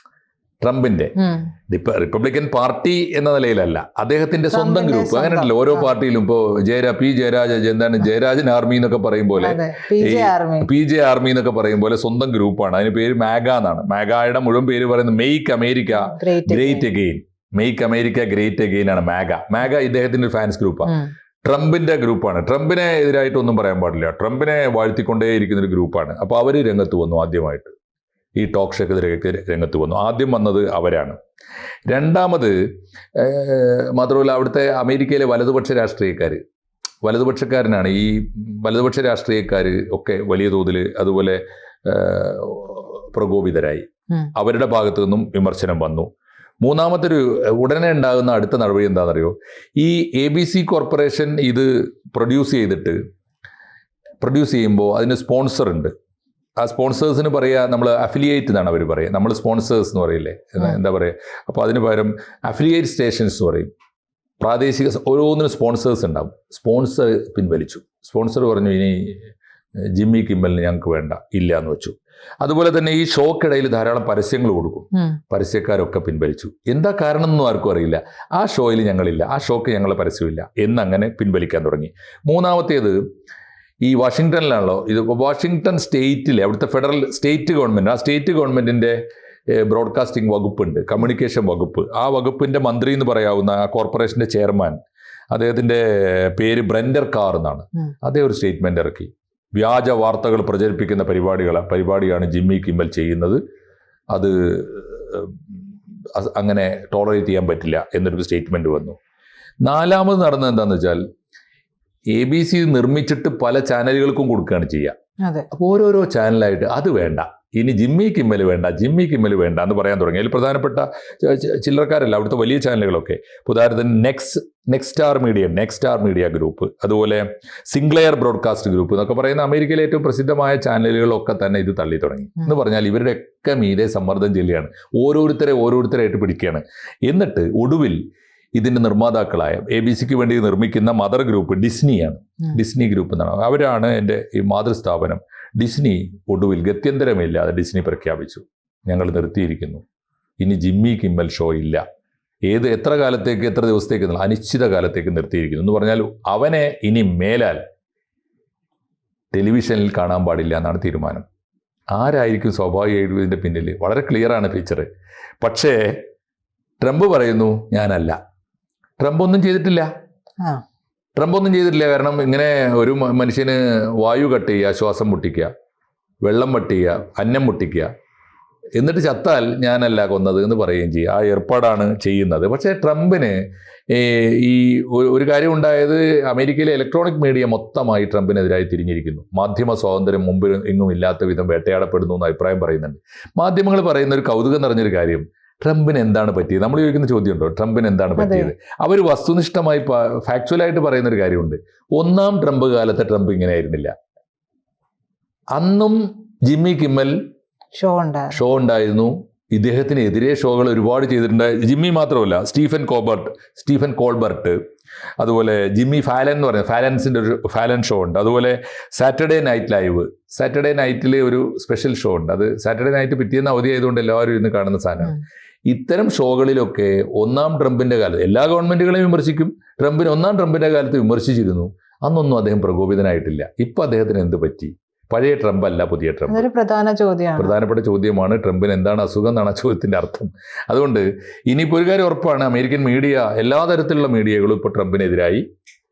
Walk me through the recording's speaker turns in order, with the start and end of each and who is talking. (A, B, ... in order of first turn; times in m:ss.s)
0:00.6-0:01.1 A
0:01.2-0:01.5 B
0:01.7-0:27.7 A
0:04.5-0:05.9 B
0:09.4-0:10.7 B
0:15.9-0:16.9 B
0:28.4-0:31.2 A
0:31.9-0:32.5 A
0:33.1-0:36.4 A
0:37.0-0:46.1 A
0:46.6-0:53.0 A
0:54.2-0:55.9 A
0:56.6-1:03.7 A
1:04.4-1:09.3 A
1:09.9-1:23.0 A
1:23.8-1:29.0 A
1:29.5-1:34.8 A
1:35.3-1:43.4 A
1:44.1-1:45.4 A
1:46.1-1:49.0 A
1:49.6-1:51.0 A
1:52.1-1:54.9 A
1:55.5-2:18.0 A
2:18.5-2:29.8 A
2:30.4-2:31.8 A
2:32.4-2:37.6 A
2:39.3-2:41.2 A
2:41.9-2:44.9 A
2:45.4-2:46.0 A
2:46.8-2:48.2 A
2:49.0-2:49.9 A
2:51.2-2:55.5 A
2:56.2-2:57.9 A
2:58.8-3:03.4 A
3:03.9-3:23.9 A
3:18.2-3:18.5 B
3:25.5-3:27.2 A
3:27.8-3:28.4 B
3:28.3-3:34.6 A
3:35.2-3:56.4 A
3:56.3-3:57.5 B
3:57.4-4:05.4 A